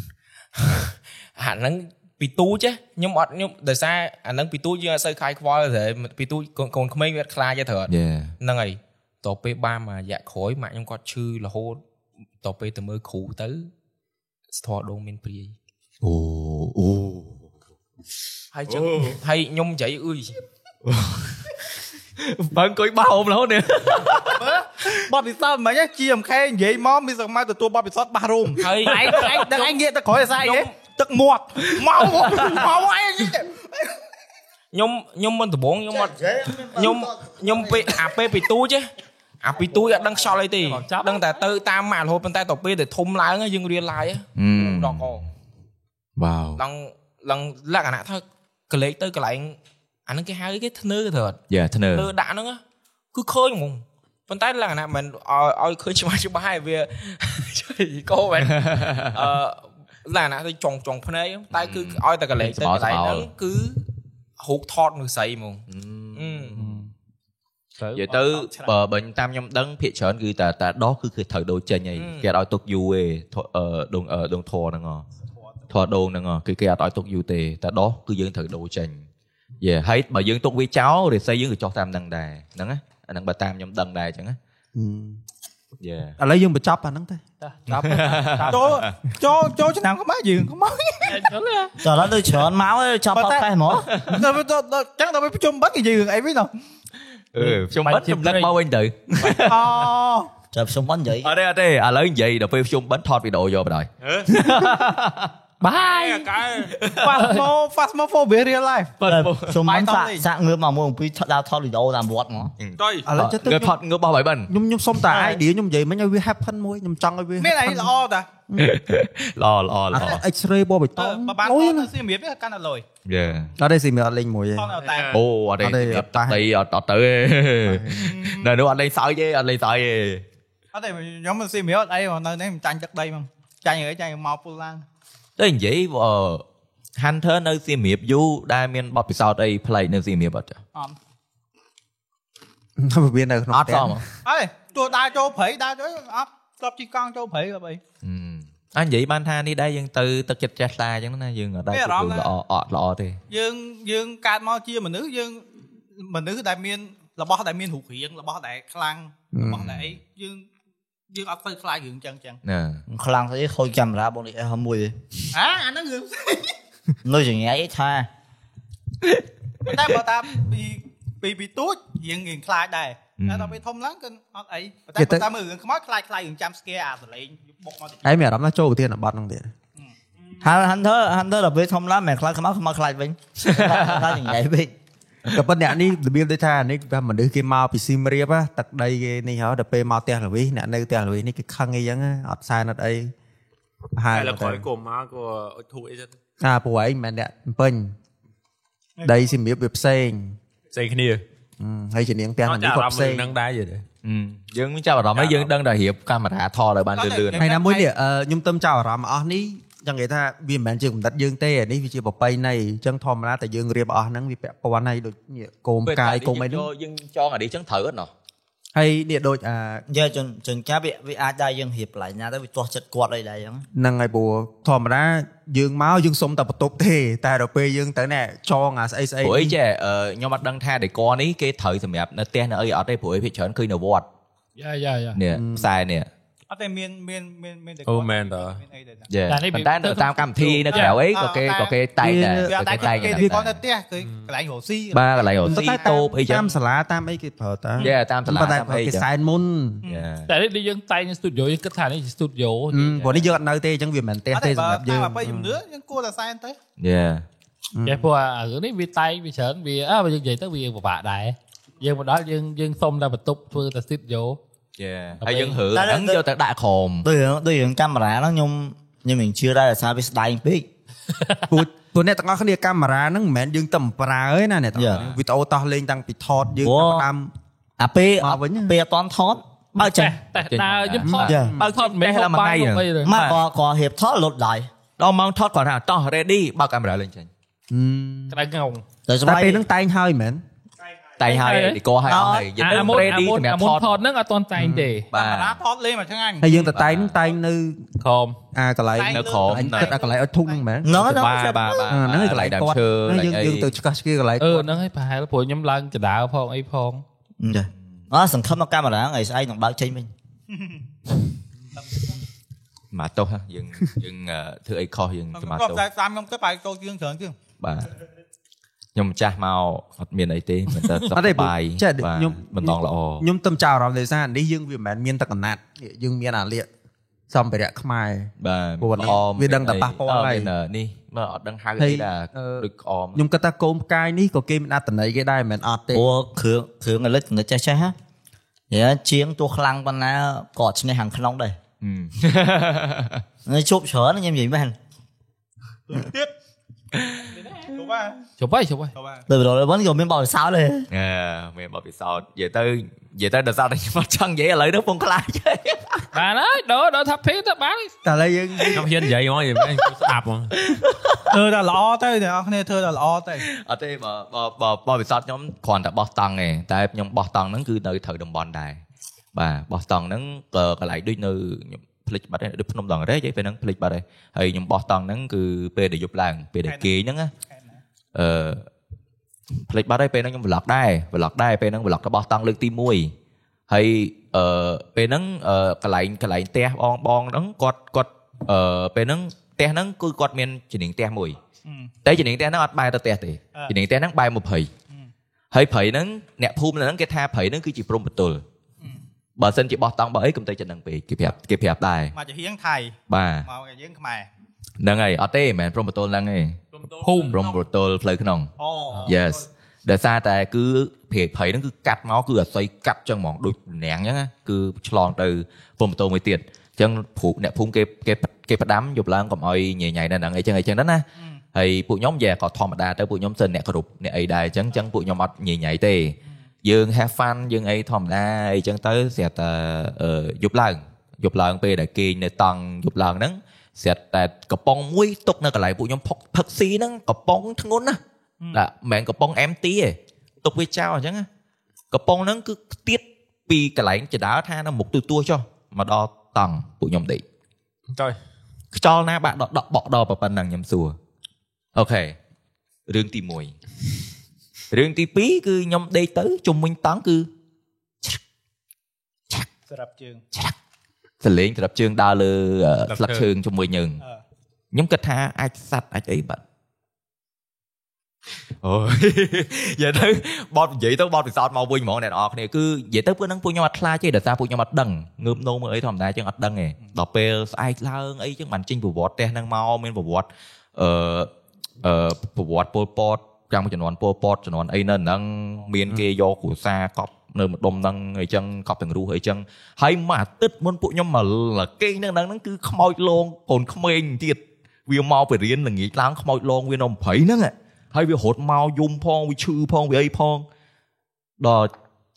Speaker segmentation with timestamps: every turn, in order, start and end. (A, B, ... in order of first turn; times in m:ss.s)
0:00.6-0:11.8 A
0:07.9-0:08.3 B
0:12.4-0:13.7 A
0:14.5-0:15.6 A
0:16.0-0:17.4 B
0:18.5-0:20.4 A
0:18.7-0:19.2 B
0:20.8-0:21.5 B
0:22.2-0:25.0 B
0:24.4-0:33.7 C
0:28.6-0:29.7 A
0:30.4-0:30.7 A
0:31.8-0:32.5 B
0:31.8-0:32.7 A
0:34.7-0:38.9 A
0:35.9-0:38.2 D
0:39.4-0:45.2 A
0:40.6-0:41.2 E
0:44.4-0:45.3 B
0:46.2-0:46.6 B
0:46.6-0:51.4 A
0:51.5-0:52.1 B
0:52.0-0:52.6 A
0:53.1-1:03.8 A
0:58.4-0:59.3 B
1:01.5-1:03.3 B
1:04.4-1:05.6 A
1:05.7-1:06.9 B
1:06.2-1:06.6 A
1:06.6-1:06.8 E
1:07.8-1:08.0 E
1:07.9-1:15.1 B
1:08.1-1:08.7 C
1:12.0-1:12.3 A
1:15.7-1:19.1 B
1:19.6-1:24.4 B
1:24.8-1:25.2 F
1:25.8-1:26.2 B
1:26.2-1:27.2 F
1:27.4-1:28.6 E
1:27.7-1:29.0 B
1:28.5-1:31.3 C
1:31.1-1:31.8 E
1:31.8-1:33.9 D
1:33.1-1:33.5 C
1:33.9-1:34.2 B
1:34.1-1:36.5 C
1:37.3-1:39.8 B
1:37.4-1:38.5 E
1:39.3-1:40.3 C
1:40.5-1:41.3 D
1:41.2-1:45.3 B
1:44.0-1:44.3 G
1:45.6-1:46.3 E
1:45.6-1:46.8 G
1:46.8-1:47.2 B
1:47.0-1:49.0 C
1:49.0-1:52.5 D
1:49.1-1:49.5 B
1:49.6-1:50.2 C
1:52.6-1:54.5 B
1:52.8-1:53.1 G
1:53.0-1:53.8 F
1:54.5-1:57.9 F
1:55.1-1:55.4 C
1:57.4-1:58.3 C
1:58.6-2:00.2 B
1:59.9-2:01.9 F
2:01.0-2:02.8 C
2:03.0-2:03.5 B
2:03.6-2:04.7 F
2:04.6-2:05.2 C
2:04.9-2:05.1 G
2:05.1-2:10.2 B
2:05.6-2:06.5 F
2:07.7-2:08.0 F
2:08.0-2:08.5 C
2:10.7-2:14.8 C
2:15.4-2:16.4 B
2:17.0-2:20.6 B
2:22.8-2:24.1 F
2:23.5-2:24.0 B
2:24.2-2:27.8 C
2:28.0-2:33.2 B
2:31.7-2:32.3 C
2:33.3-2:40.5 C
2:39.3-2:39.8 F
2:41.1-2:42.4 C
2:42.4-2:42.8 B
2:42.9-2:45.0 D
2:45.3-2:46.5 C
2:47.0-2:48.1 D
2:49.6-2:58.0 C
2:53.2-2:53.6 B
2:55.0-2:55.3 F
2:58.0-2:59.5 F
3:00.4-3:04.7 D
3:03.4-3:04.2 B
3:05.3-3:13.1 F
3:14.0-3:14.7 F
3:14.1-3:16.1 G
3:16.4-3:18.0 F
3:19.0-3:19.3 C
3:19.0-3:20.4 F
3:20.7-3:21.2 G
3:21.6-3:23.3 F
3:22.4-3:23.8 G
3:24.0-3:27.4 B
3:25.2-3:25.5 G
3:27.0-3:27.9 C
3:27.4-3:36.7 F
3:35.8-3:38.1 B
3:38.7-3:39.8 F
3:39.9-3:43.7 D
3:43.7-3:49.6 F
3:49.2-3:54.1 B
3:54.6-3:55.2 E
3:55.2-3:56.1 B
3:55.3-3:55.7 F
3:56.5-3:59.1 C
3:57.9-3:58.6 G
3:59.1-4:03.6 B
3:59.3-4:01.0 E
4:00.7-4:01.8 C
4:02.0-4:03.4 F
4:02.4-4:05.9 C
4:04.9-4:06.5 B
4:05.4-4:09.8 F
4:07.8-4:09.1 B
4:09.8-4:10.3 B
4:10.3-4:13.3 E
4:12.7-4:15.6 F
4:14.3-4:16.6 C
4:16.8-4:17.3 B
4:17.8-4:18.1 F
4:17.8-4:24.4 E
4:24.8-4:27.1 B
4:25.2-4:25.6 E
4:25.7-4:26.2 D
4:27.0-4:30.7 D
4:31.5-4:37.3 F
4:34.7-4:35.1 D
4:36.6-4:37.1 D
4:37.8-4:40.2 D
4:38.2-4:38.7 F
4:39.8-4:43.2 E
4:40.4-4:43.4 B
4:41.0-4:41.6 F
4:41.3-4:41.5 D
4:43.0-4:44.7 D
4:45.0-4:47.3 B
4:47.7-4:48.4 F
4:48.3-4:48.8 E
4:49.1-4:49.6 D
4:49.2-4:50.4 F
4:51.2-4:53.9 B
4:51.2-4:51.8 E
4:52.0-4:53.1 D
4:52.6-4:55.1 E
4:54.6-4:55.0 F
4:55.1-4:55.6 B
4:55.1-4:56.5 C
4:56.4-4:57.9 F
4:56.5-4:57.2 B
4:58.0-4:58.4 E
4:58.5-5:01.2 F
4:58.9-5:00.5 C
4:59.1-5:00.0 B
5:00.8-5:01.9 D
5:00.9-5:03.7 B
5:01.9-5:04.7 F
5:04.4-5:07.0 E
5:07.4-5:10.1 D
5:10.5-5:10.8 C
5:12.9-5:15.8 B
5:15.4-5:17.4 C
5:17.6-5:17.9 B
5:19.0-5:23.2 B
5:21.1-5:26.7 F
5:27.3-5:30.5 F
5:28.4-5:33.2 B
5:31.8-5:36.1 F
5:35.9-5:38.0 D
5:38.7-5:41.6 D
5:41.8-5:43.2 B
5:43.5-5:44.8 D
5:45.9-5:46.3 C
5:47.3-5:48.2 C
5:48.4-5:48.9 E
5:49.0-5:49.2 C
5:49.3-5:50.9 D
5:50.9-5:56.1 B
5:56.1-5:57.9 E
5:58.0-5:59.0 F
5:58.7-6:00.5 G
6:00.6-6:01.2 B
6:01.3-6:03.4 C
6:03.4-6:08.8 B
6:09.3-6:17.3 B
6:16.6-6:17.8 C
6:18.2-6:18.7 B
6:19.7-6:23.1 B
6:23.7-6:31.4 B
6:31.6-6:31.9 C
6:32.0-6:34.7 B
6:35.5-6:38.4 B
6:39.4-6:42.2 B
6:42.1-6:44.3 C
6:43.1-6:43.5 B
6:44.8-6:48.5 B
6:47.0-6:47.5 C
6:48.6-6:49.4 C
6:49.0-7:18.0 B
7:18.5-7:21.3 B
7:21.9-7:27.2 B
7:27.9-7:28.2 G
7:28.7-7:31.0 B
7:31.8-7:32.2 B
7:32.9-7:33.6 B
7:34.7-7:37.3 B
7:39.7-7:40.2 C
7:41.2-7:44.0 B
7:42.9-7:43.3 G
7:44.7-7:46.4 B
7:48.6-8:20.5 B
8:21.4-8:21.7 B